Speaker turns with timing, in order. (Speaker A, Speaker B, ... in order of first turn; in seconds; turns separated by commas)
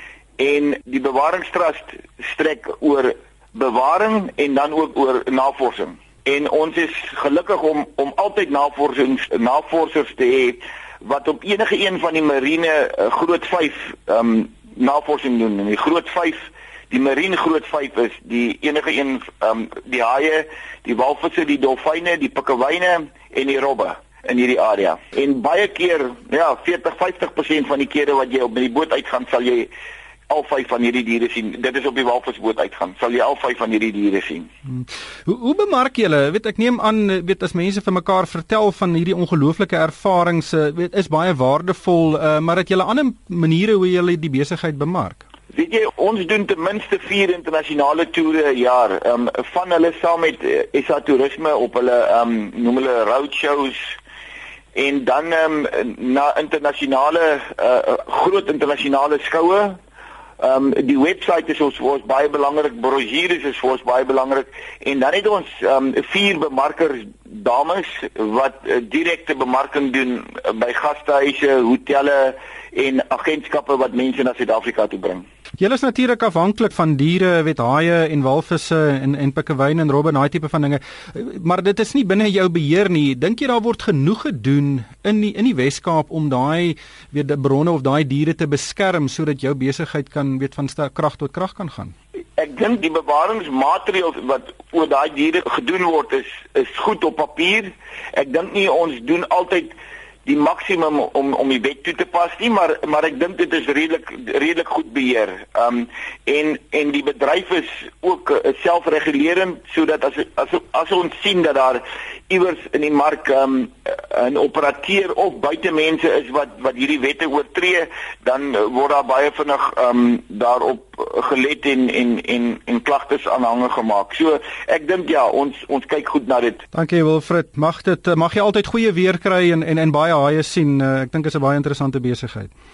Speaker A: 0.4-29.7, Speaker A: 30.3-34.5, Speaker B: 34.7-45.2, Speaker A: 45.5-53.8, Speaker A: 54.8-59.8, Speaker A: 60.4-75.2, Speaker B: 75.6-92.0, Speaker A: 92.4-99.7, Speaker A: 100.3-126.6, Speaker B: 126.7-132.5